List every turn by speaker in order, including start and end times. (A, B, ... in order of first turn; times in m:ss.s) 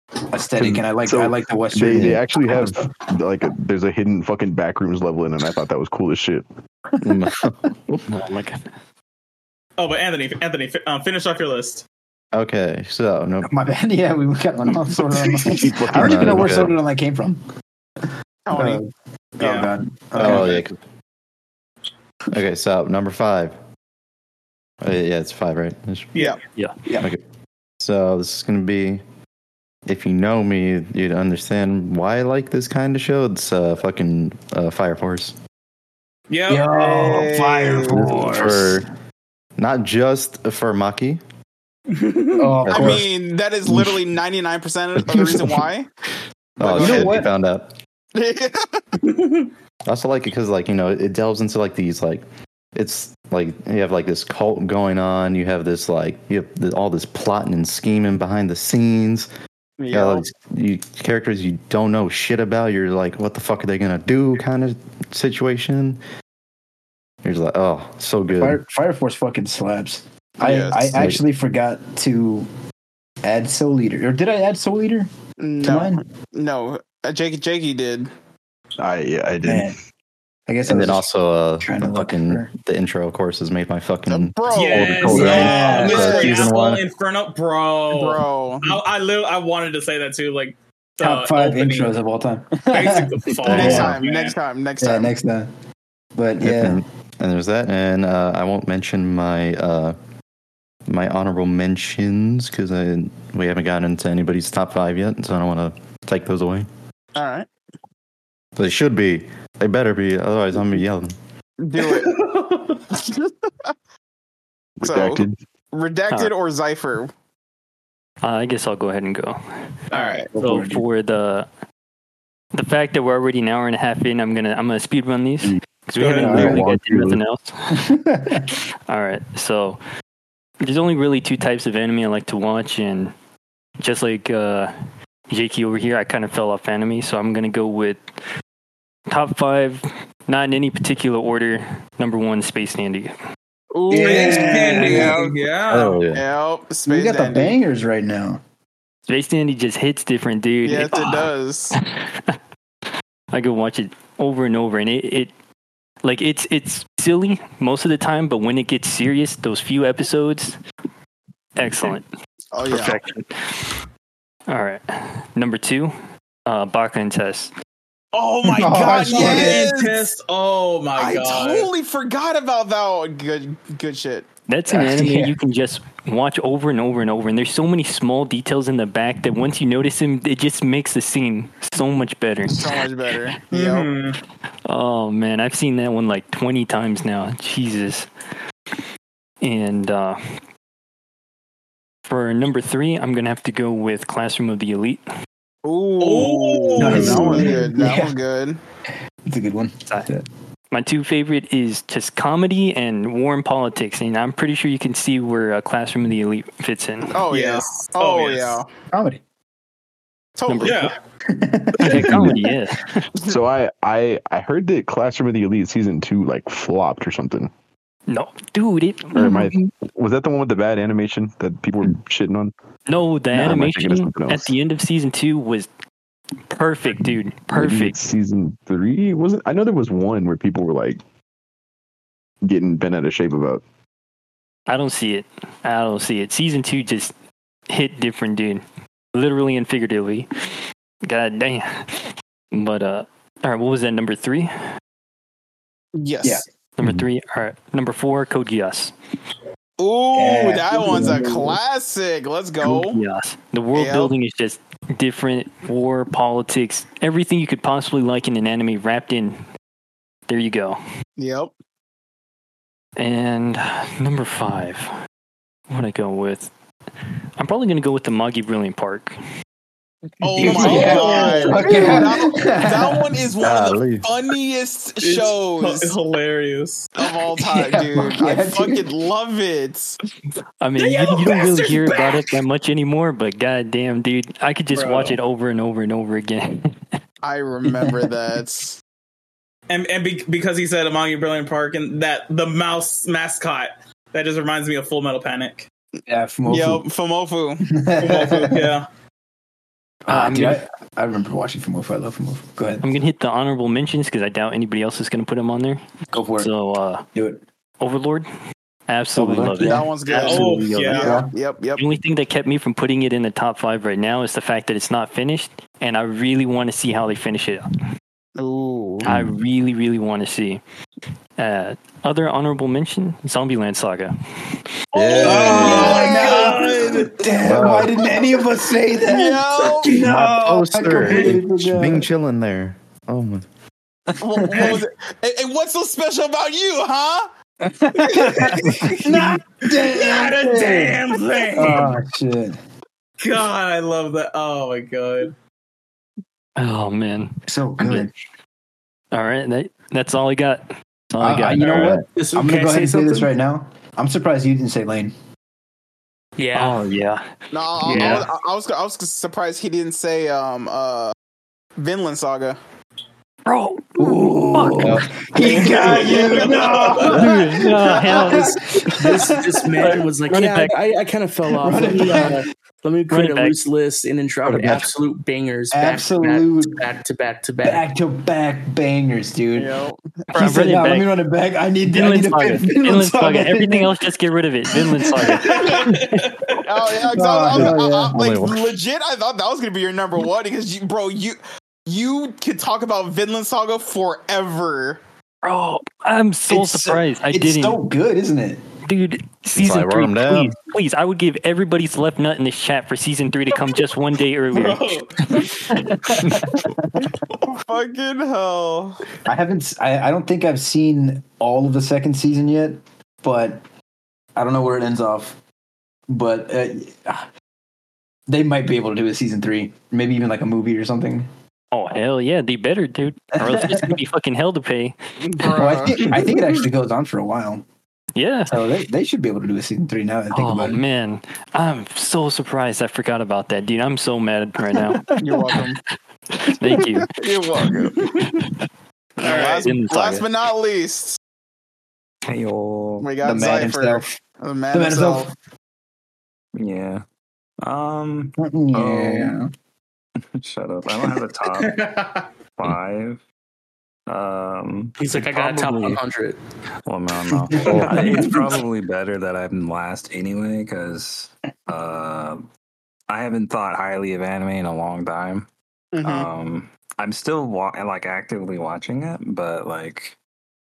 0:00.3-0:02.2 A
0:00.6-0:06.4 B
0:01.9-0:02.2 C
0:07.0-0:08.0 C
0:08.1-0:08.6 D
0:09.8-0:11.8 E
0:12.3-0:13.5 C
0:13.4-0:17.4 A
0:15.2-0:16.7 B
0:15.9-0:16.7 C
0:18.4-0:18.8 F
0:18.5-0:20.6 A
0:19.4-0:19.7 E
0:20.2-0:20.8 C
0:20.2-0:20.5 E
0:22.3-0:23.6 C
0:24.8-0:26.2 C
0:27.8-0:29.0 C
0:29.8-0:35.4 C
0:36.3-0:37.6 E
0:36.5-0:38.8 A
0:37.0-0:38.0 F
0:37.9-0:38.9 C
0:39.6-0:41.2 C
0:41.9-0:42.6 E
0:42.4-0:43.1 A
0:42.6-0:43.0 C
0:42.7-0:45.9 F
0:45.1-0:45.4 C
0:46.6-0:47.3 A
0:46.6-0:47.8 C
0:46.6-0:47.2 F
0:48.1-0:49.0 F
0:49.0-0:49.5 E
0:49.8-0:59.3 C
0:59.8-1:00.2 F
0:59.9-1:06.0 C
1:07.2-1:08.6 C
1:08.3-1:12.5 A
1:10.4-1:10.9 F
1:10.9-1:11.2 C
1:13.2-1:15.1 A
1:15.4-1:18.1 F
1:15.6-1:16.0 A
1:18.8-1:19.8 B
1:19.4-1:19.8 A
1:20.5-1:21.1 A
1:20.6-1:26.8 C
1:21.6-1:22.5 A
1:24.1-1:26.4 F
1:24.5-1:25.8 G
1:24.5-1:31.9 E
1:25.0-1:26.2 A
1:27.9-1:28.7 F
1:31.0-1:34.0 A
1:32.7-1:34.3 E
1:33.4-1:35.1 F
1:33.6-1:33.8 C
1:34.8-1:35.5 A
1:36.2-1:36.8 A
1:36.4-1:40.0 C
1:40.8-1:46.7 C
1:47.1-1:47.5 F
1:48.6-1:51.1 C
1:51.6-1:52.2 F
1:52.0-1:52.8 E
1:54.8-1:55.4 B
1:54.8-1:57.1 F
1:58.2-1:59.4 D
1:59.9-2:00.3 F
2:00.3-2:00.8 A
2:00.4-2:01.5 D
2:02.5-2:09.8 D
2:06.0-2:06.4 E
2:06.2-2:07.2 B
2:06.4-2:06.6 C
2:07.7-2:08.5 A
2:10.6-2:13.1 D
2:13.8-2:14.7 D
2:15.3-2:18.0 D
2:19.1-2:23.1 D
2:23.7-2:25.4 F
2:23.9-2:25.2 A
2:23.9-2:26.0 E
2:25.7-2:26.2 C
2:26.1-2:27.6 F
2:26.8-2:28.4 A
2:29.1-2:32.3 D
2:30.6-2:31.7 F
2:33.3-2:35.3 D
2:36.0-2:40.6 D
2:41.6-2:42.0 D
2:42.5-2:43.0 F
2:42.6-2:43.8 D
2:44.5-2:44.8 D
2:45.3-2:45.9 D
2:46.5-2:47.5 D
2:48.2-2:51.7 E
2:48.2-2:50.1 F
2:48.4-2:49.7 A
2:51.0-2:54.2 F
2:54.5-3:02.8 D
2:54.7-2:55.4 A
3:02.5-3:03.9 F
3:03.5-3:04.2 E
3:04.7-3:08.1 D
3:09.4-3:10.2 D
3:12.0-3:15.0 D
3:15.6-3:18.6 F
3:16.0-3:17.6 E
3:16.8-3:18.2 A
3:19.2-3:20.2 A
3:20.7-3:27.1 D
3:27.1-3:28.6 F
3:27.3-3:28.6 E
3:28.9-3:29.2 A
3:30.4-3:30.9 F
3:30.5-3:30.9 D
3:30.6-3:30.9 E
3:31.3-3:32.4 A
3:31.8-3:33.0 D
3:31.9-3:32.4 B
3:33.2-3:37.5 B
3:38.1-3:39.7 D
3:39.1-3:42.5 B
3:42.9-3:45.7 D
3:43.3-3:44.5 B
3:46.5-3:48.0 D
3:47.5-3:51.0 B
3:52.4-3:53.6 B
3:54.7-3:57.1 D
3:57.7-3:58.6 D
3:59.1-4:00.3 D
4:01.0-4:04.5 D
4:06.0-4:06.4 F
4:06.8-4:08.9 D
4:09.8-4:13.0 F
4:10.1-4:11.6 A
4:12.6-4:19.4 D
4:13.7-4:14.1 F
4:20.3-4:20.8 D
4:21.2-4:21.5 F
4:23.0-4:24.9 D
4:25.7-4:26.5 D
4:27.4-4:29.1 D
4:30.2-4:36.0 F
4:30.3-4:32.0 E
4:30.4-4:33.2 A
4:33.4-4:34.1 C
4:35.0-4:37.0 E
4:37.0-4:40.0 F
4:37.4-4:38.9 A
4:40.6-4:46.7 D
4:40.8-4:42.4 E
4:44.7-4:45.2 E
4:47.2-4:48.8 F
4:49.7-4:55.7 E
4:56.1-4:56.8 A
4:56.4-4:57.6 F
4:57.6-4:58.7 A
4:58.0-4:58.8 E
5:00.0-5:02.8 A
5:00.1-5:00.6 D
5:02.8-5:05.8 D
5:06.1-5:06.5 A
5:06.4-5:07.0 D
5:07.1-5:07.4 A
5:07.8-5:08.3 D
5:08.9-5:11.2 D
5:09.1-5:09.8 A
5:09.6-5:11.8 F
5:10.1-5:11.2 E
5:11.0-5:11.3 A
5:11.8-5:17.6 D
5:18.4-5:19.1 F
5:19.0-5:20.6 D
5:19.0-5:19.3 C
5:21.4-5:24.1 D
5:24.9-5:26.0 C
5:25.0-5:27.1 E
5:25.1-5:32.1 A
5:25.2-5:26.7 F
5:27.4-5:28.0 C
5:29.0-5:30.0 F
5:29.9-5:33.4 C
5:34.2-5:37.3 F
5:34.3-5:34.8 A
5:37.6-5:42.6 A
5:38.3-5:39.0 F
5:39.8-5:41.9 E
5:43.2-5:45.3 E
5:46.6-5:48.1 D
5:47.5-5:48.1 A
5:49.1-5:52.1 D
5:51.2-5:55.1 A
5:52.2-5:53.3 G
5:56.4-5:56.8 G
5:56.5-5:57.2 D
5:57.5-6:01.1 F
5:57.8-5:58.2 D
5:57.8-5:58.3 G
6:01.8-6:02.6 F
6:03.4-6:05.1 D
6:04.0-6:09.8 A
6:05.5-6:07.1 F
6:05.6-6:07.2 E
6:07.0-6:08.6 D
6:08.2-6:17.8 G
6:09.8-6:10.8 D
6:11.5-6:12.4 A
6:13.1-6:13.6 D
6:14.4-6:14.9 D
6:15.7-6:16.8 A
6:17.6-6:19.7 A
6:19.5-6:20.3 F
6:20.3-6:23.9 A
6:20.3-6:21.2 D
6:21.9-6:26.4 D
6:24.9-6:25.6 A
6:25.4-6:26.2 E
6:26.6-6:35.0 F
6:27.1-6:28.1 A
6:27.6-6:28.8 C
6:35.4-6:37.8 D
6:36.5-6:38.6 A
6:38.8-6:46.1 D
6:39.5-6:40.6 C
6:44.5-6:45.1 E
6:45.7-6:47.1 A
6:47.4-6:49.0 F
6:49.2-6:53.6 A
6:54.3-6:55.4 A
6:56.1-6:57.3 A
6:58.3-7:01.3 A
7:01.7-7:05.0 D
7:03.4-7:04.0 A
7:05.3-7:06.1 F
7:05.4-7:07.6 A
7:08.2-7:08.8 D
7:08.5-7:10.8 A
7:10.3-7:15.8 D
7:15.2-7:15.8 F
7:16.3-7:18.5 D
7:17.2-7:18.0 F
7:19.2-7:21.2 F
7:19.3-7:20.3 D
7:22.3-7:23.1 H
7:23.0-7:25.3 F
7:23.2-7:24.1 A
7:24.7-7:25.3 A
7:26.6-7:27.0 H
7:27.6-7:29.4 H
7:28.4-7:29.5 A
7:30.4-7:31.8 H
7:32.6-7:33.2 H
7:34.1-7:36.0 H
7:35.0-7:36.4 G
7:36.8-7:42.4 H
7:37.6-7:38.0 A
7:37.6-7:38.5 G
7:37.6-7:38.0 C
7:43.1-7:45.5 H
7:45.9-7:46.3 F
7:46.0-7:50.2 H